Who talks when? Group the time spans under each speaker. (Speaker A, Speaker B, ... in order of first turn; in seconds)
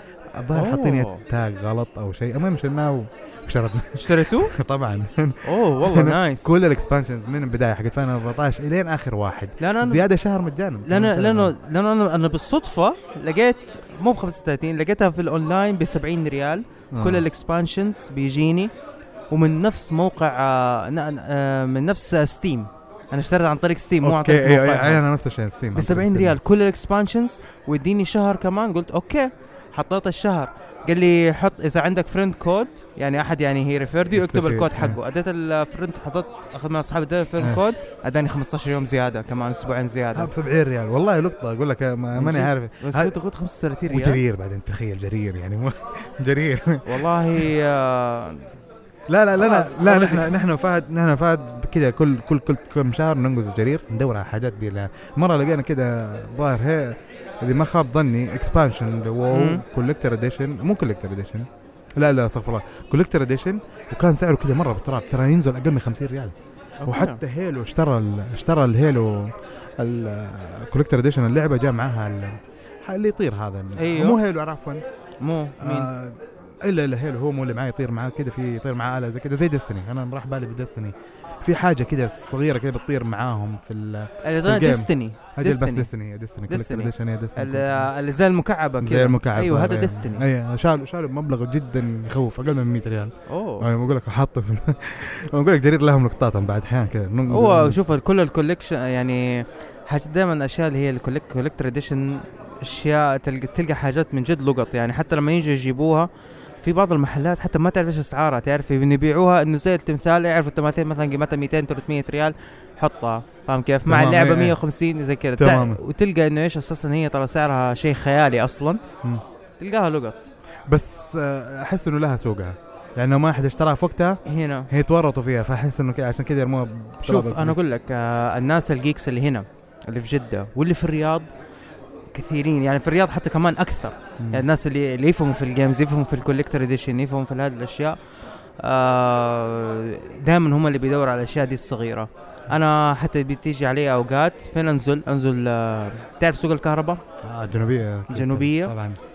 Speaker A: 0.4-11.5, 16.9-17.2, 24.0-26.4, 34.1-35.0, 40.1-43.2, 43.9-47.4, 49.1-61.5, 62.0-66.3, 66.9-74.8, 75.6-87.9, 88.8-97.8, 113.8-114.6, 115.4-115.8, 120.7-127.6, 134.2-134.4, 147.2-149.0
Speaker B: 0.5-1.2, 4.0-4.5, 5.4-6.6, 9.6-10.1, 10.8-18.7, 19.3-25.0, 25.7-40.3, 42.1-44.2, 46.9-48.5, 49.4-50.3, 59.3-59.6, 66.8-67.2, 73.8-74.2, 75.2-75.9, 84.2-85.9, 86.5-90.2, 93.3-93.7, 97.3-106.1, 106.6-118.8, 119.6-120.3, 124.2-124.7, 127.0-131.3, 132.1-138.0, 138.6-147.0, 148.1-148.7